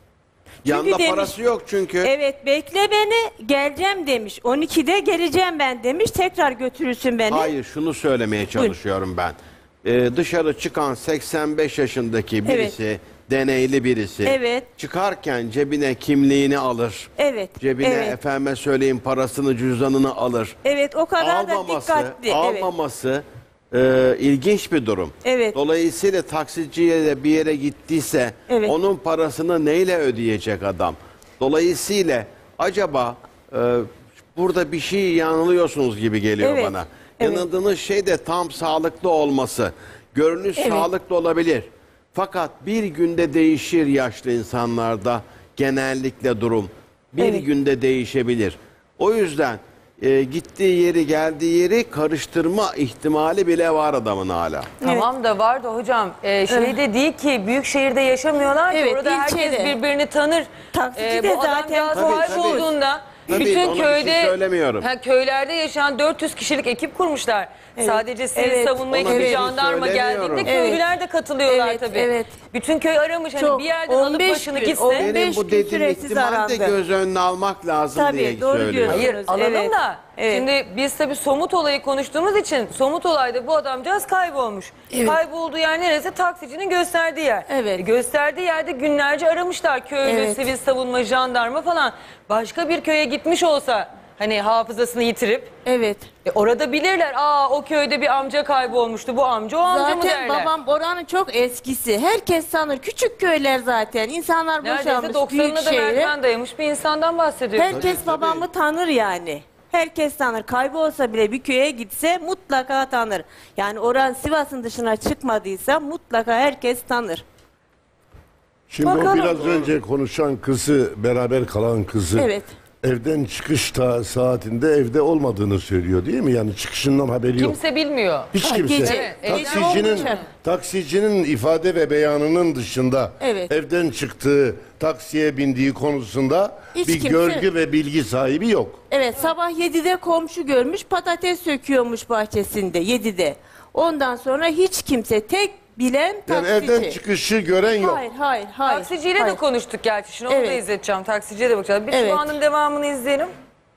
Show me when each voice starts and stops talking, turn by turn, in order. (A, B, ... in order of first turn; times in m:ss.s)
0:00.6-0:01.4 A
0:00.6-0:02.1 B
0:02.0-0:07.5 A
0:07.3-0:20.6 B
0:12.4-0:12.8 A
0:14.2-0:14.7 A
0:17.2-0:18.2 A
0:20.6-0:22.7 A
0:21.2-0:54.7 B
0:25.2-0:25.6 A
0:28.5-0:28.8 A
0:36.4-0:37.4 A
0:40.6-0:40.9 A
0:54.8-0:55.1 A
0:54.8-1:15.1 C
0:56.5-0:56.8 A
0:58.7-0:59.8 A
1:00.7-1:02.7 A
1:01.9-1:02.7 B
1:03.3-1:04.9 B
1:07.8-1:09.5 A
1:08.9-1:10.5 B
1:10.4-1:10.9 A
1:11.5-1:12.4 A
1:13.4-1:16.8 A
1:15.0-1:19.1 B
1:17.9-1:20.5 A
1:18.9-1:35.5 C
1:24.9-1:25.2 A
1:27.5-1:27.8 A
1:30.0-1:30.4 A
1:35.6-1:36.1 A
1:36.2-1:40.5 C
1:39.6-1:46.1 A
1:44.6-1:47.9 C
1:47.6-1:57.2 A
1:47.7-1:48.4 B
1:58.7-2:02.3 D
1:58.8-1:59.6 C
2:02.2-2:02.5 A
2:02.8-2:07.6 D
2:07.4-2:10.2 C
2:08.3-2:18.8 D
2:08.4-2:10.2 A
2:13.2-2:13.5 A
2:16.8-2:17.5 A
2:18.9-2:27.0 A
2:26.3-2:28.0 D
2:27.7-2:29.4 A
2:28.6-2:33.3 C
2:30.3-2:30.6 A
2:31.9-2:32.3 A